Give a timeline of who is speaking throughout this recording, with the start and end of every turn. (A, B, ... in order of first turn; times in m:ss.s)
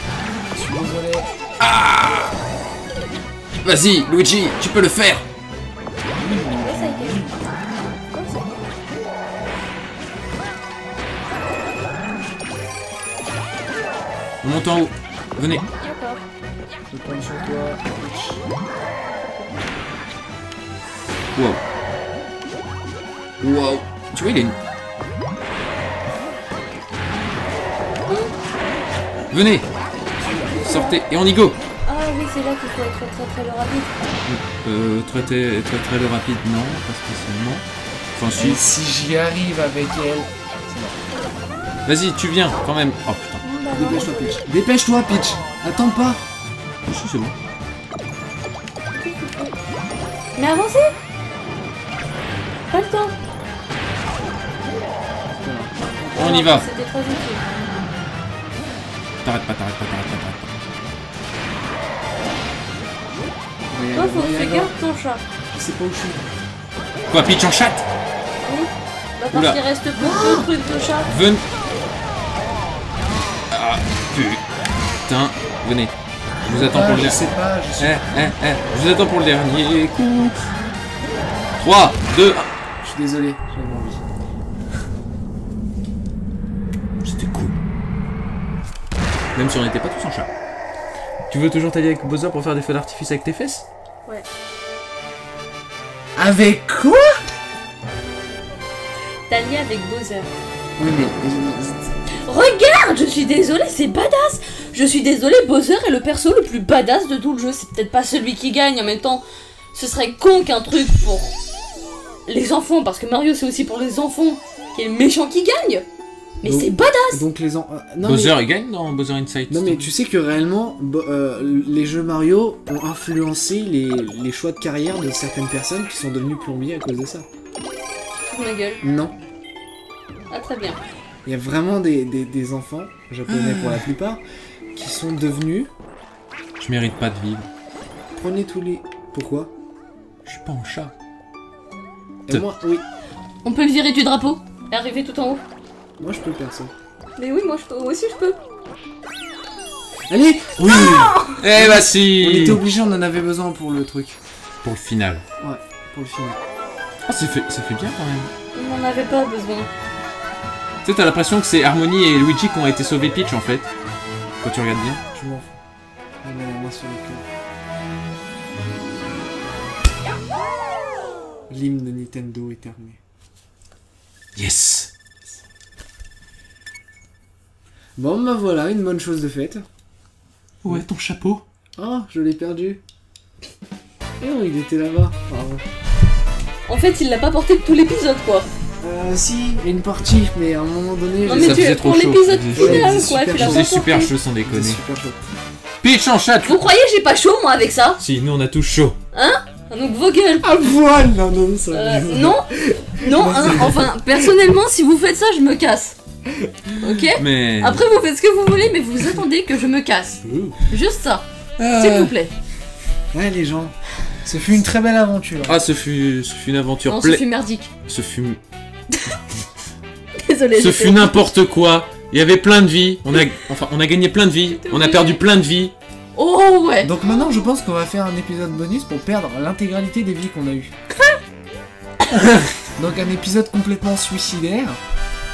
0:00.5-0:01.3 A
0:01.6-0:02.4 B
0:03.6-0:05.2 B
0:06.2-0:07.3 A
0:06.6-0:07.2 C
0:08.1-0:08.8 C
0:14.4-0:15.7 B
0:15.8-0:16.2 C
0:16.9-0:18.5 A
0:19.1-0:19.6 C
0:23.4-0:24.6 B
0:28.1-0:28.3 C
0:29.3-0:29.7 B
0:30.2-0:31.0 C
0:30.6-0:31.6 B
0:31.9-0:33.9 C
0:34.3-0:37.6 B
0:38.2-0:38.6 B
0:38.3-0:41.0 A
0:41.9-0:43.4 B
0:43.4-0:44.4 C
0:43.7-0:46.2 A
0:46.9-0:47.4 B
0:48.9-0:49.6 C
0:50.4-0:51.0 C
0:52.7-0:53.1 C
0:55.4-0:56.4 A
0:56.1-0:57.4 C
0:56.2-0:56.6 B
0:59.2-1:00.5 B
1:03.7-1:04.7 A
1:03.9-1:05.2 C
1:05.5-1:06.3 A
1:07.1-1:07.8 B
1:08.4-1:11.1 C
1:09.3-1:09.6 B
1:10.0-1:10.5 A
1:11.1-1:11.4 B
1:13.5-1:14.4 B
1:15.1-1:15.9 B
1:16.4-1:17.2 B
1:16.6-1:18.0 A
1:17.8-1:20.5 B
1:21.6-1:22.5 B
1:22.8-1:24.0 A
1:27.0-1:27.6 B
1:29.4-1:30.3 B
1:31.3-1:33.6 B
1:36.2-1:37.2 A
1:39.3-1:40.3 C
1:40.8-1:41.9 A
1:42.2-1:51.3 C
1:52.3-1:55.8 C
1:56.4-1:57.2 C
1:56.4-1:58.4 A
1:58.0-1:59.9 B
1:59.5-2:07.3 A
2:08.2-2:08.8 C
2:08.8-2:09.2 A
2:10.3-2:10.8 C
2:11.2-2:14.2 A
2:13.3-2:13.9 B
2:14.7-2:15.7 A
2:16.6-2:17.5 B
2:18.2-2:19.5 A
2:20.2-2:20.9 B
2:22.3-2:22.8 A
2:23.4-2:25.4 C
2:26.0-2:26.7 A
2:27.2-2:28.4 C
2:30.1-2:34.2 A
2:30.7-2:31.4 C
2:31.4-2:32.6 B
2:34.6-2:35.2 B
2:35.4-2:36.4 A
2:37.1-2:38.3 B
2:38.5-2:39.7 C
2:40.8-2:43.7 B
2:44.4-2:45.0 B
2:45.2-2:45.5 A
2:46.2-2:47.2 A
2:51.5-2:53.0 A
2:54.4-2:54.9 B
2:58.0-2:59.7 A
3:00.6-3:01.4 B
3:01.8-3:02.8 A
3:04.2-3:05.7 A
3:06.7-3:08.5 C
3:08.8-3:11.8 A
3:11.2-3:14.1 C
3:11.3-3:14.8 B
3:12.5-3:13.7 A
3:14.5-3:15.2 A
3:15.8-3:16.6 B
3:16.4-3:18.0 C
3:18.0-3:19.0 B
3:19.1-3:20.5 C
3:20.4-3:23.9 A
3:21.7-3:26.0 C
3:26.3-3:26.7 A
3:26.8-3:32.3 C
3:27.2-3:27.8 B
3:30.2-3:30.6 A
3:31.6-3:32.1 B
3:33.1-3:35.6 A
3:35.4-3:37.2 B
3:36.9-3:37.7 C
3:37.9-3:38.4 B
3:38.9-3:39.2 C
3:40.2-3:41.2 C
3:40.6-3:45.7 B
3:44.5-3:45.2 C
3:46.2-3:47.4 C
3:46.8-3:50.7 A
3:52.1-3:52.5 B
3:52.8-3:54.8 A